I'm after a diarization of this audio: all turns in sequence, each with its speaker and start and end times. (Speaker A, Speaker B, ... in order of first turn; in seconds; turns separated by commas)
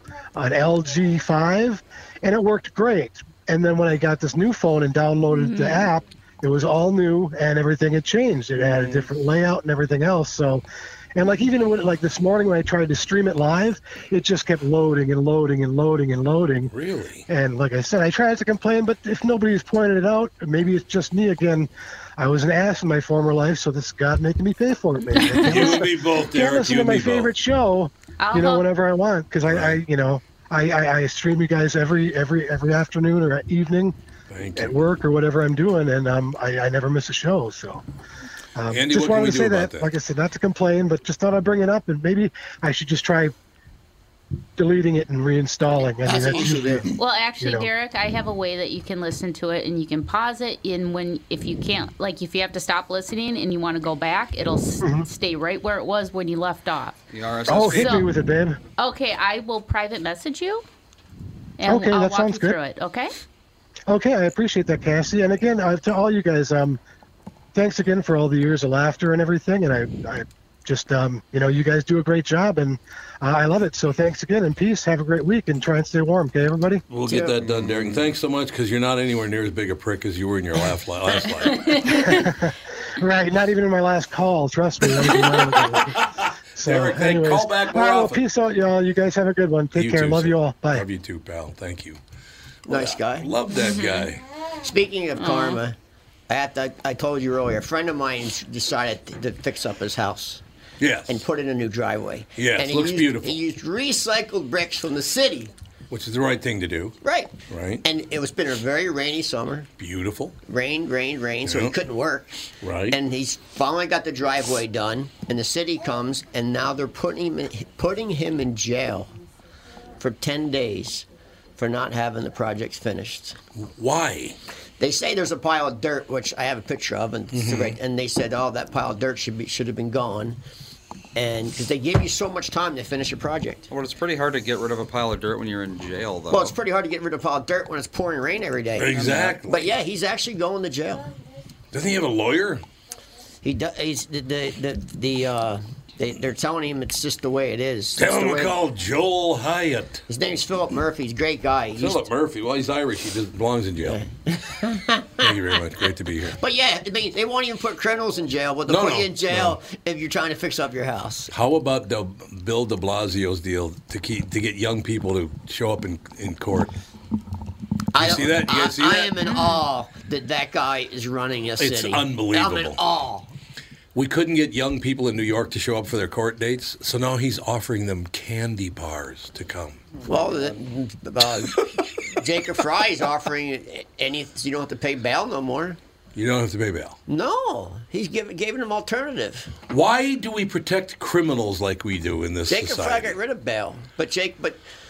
Speaker A: 0.3-10.6, Speaker B: 5.3-5.9, Speaker C: 8.5-9.1, Speaker A: 11.1-16.7, Speaker D: 16.7-17.2, Speaker A: 17.3-33.9, Speaker D: 25.4-27.3, Speaker B: 28.2-28.7, Speaker D: 29.5-29.8, Speaker D: 34.3-34.8, Speaker A: 34.5-37.8, Speaker A: 38.5-43.3, Speaker D: 38.7-39.9, Speaker A: 44.6-47.7, Speaker E: 46.0-46.8, Speaker B: 47.0-57.0, Speaker A: 54.8-55.1, Speaker C: 57.1-58.1, Speaker A: 57.5-58.6, Speaker B: 57.5-58.1, Speaker B: 58.8-60.6, Speaker B: 61.6-63.1, Speaker A: 61.6-62.6, Speaker A: 63.9-66.8, Speaker A: 67.5-76.8, Speaker D: 76.9-82.0, Speaker C: 77.2-78.1, Speaker A: 81.9-86.0, Speaker D: 86.0-88.2, Speaker A: 86.6-90.8, Speaker D: 89.7-92.0, Speaker E: 92.7-93.3, Speaker D: 92.7-94.2, Speaker B: 93.5-94.1, Speaker E: 94.6-95.8, Speaker B: 95.2-95.6, Speaker E: 96.3-100.4, Speaker D: 100.8-101.2, Speaker E: 101.1-105.5, Speaker D: 102.4-103.4, Speaker D: 105.9-107.0, Speaker E: 107.0-109.7, Speaker D: 107.5-107.8, Speaker D: 109.8-110.3, Speaker E: 110.5-112.3, Speaker D: 111.4-111.8, Speaker D: 112.6-113.0, Speaker E: 112.9-119.1, Speaker E: 120.0-123.4, Speaker D: 123.6-124.4, Speaker E: 124.8-130.4, Speaker D: 127.3-127.8, Speaker E: 131.1-133.7, Speaker C: 133.7-136.5, Speaker E: 136.3-141.1, Speaker D: 138.8-139.6, Speaker C: 138.9-139.3, Speaker D: 141.7-142.6, Speaker E: 143.4-148.5, Speaker D: 148.0-150.0, Speaker E: 150.1-152.0, Speaker D: 151.8-154.0, Speaker E: 153.8-155.3, Speaker D: 155.2-156.4, Speaker E: 156.3-161.3, Speaker D: 158.7-159.6, Speaker D: 161.3-166.8, Speaker E: 167.9-173.3, Speaker D: 167.9-169.1, Speaker D: 171.6-172.8, Speaker D: 173.9-179.8, Speaker C: 180.0-180.5, Speaker E: 180.0-185.8, Speaker D: 186.2-187.0, Speaker E: 187.1-189.5, Speaker D: 189.7-193.2, Speaker E: 192.5-194.6